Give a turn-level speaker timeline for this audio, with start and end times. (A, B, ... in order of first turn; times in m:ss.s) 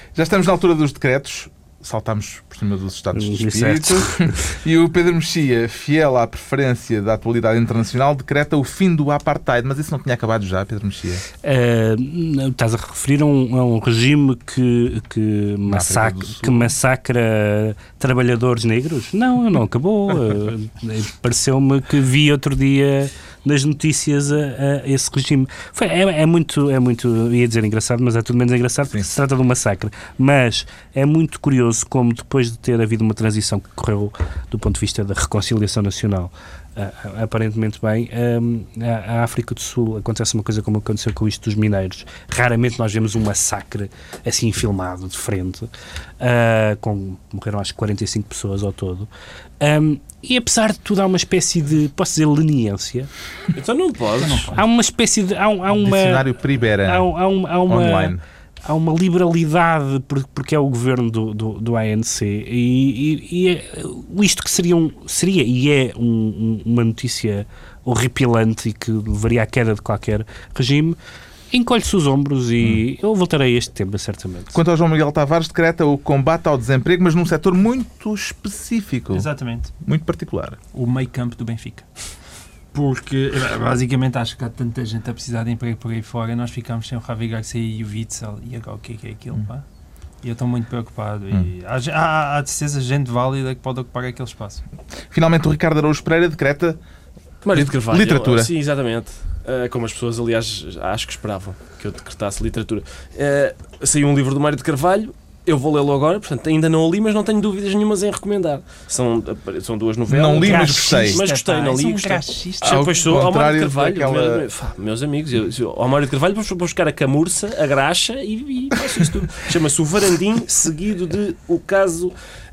0:00.1-0:11.2 A
0:03.1-0:04.3 B
0:11.4-0:49.1 B
0:15.6-0:16.7 A
0:49.6-0:53.1 B
0:53.5-0:54.5 C
0:54.2-0:54.6 D
0:54.5-0:56.2 B
0:55.7-0:57.1 A
0:56.8-1:11.0 B
0:57.7-0:58.2 A
1:11.5-1:14.6 B
1:14.5-1:19.3 A
1:19.1-1:19.7 D
1:19.8-1:20.6 A
1:20.7-1:21.9 D
1:22.7-1:29.6 D
1:30.2-1:34.6 D
1:35.1-1:36.8 A
1:37.4-2:02.1 C
1:37.5-1:38.5 A
1:50.1-1:51.2 A
1:50.4-1:53.1 D
1:52.6-1:54.4 A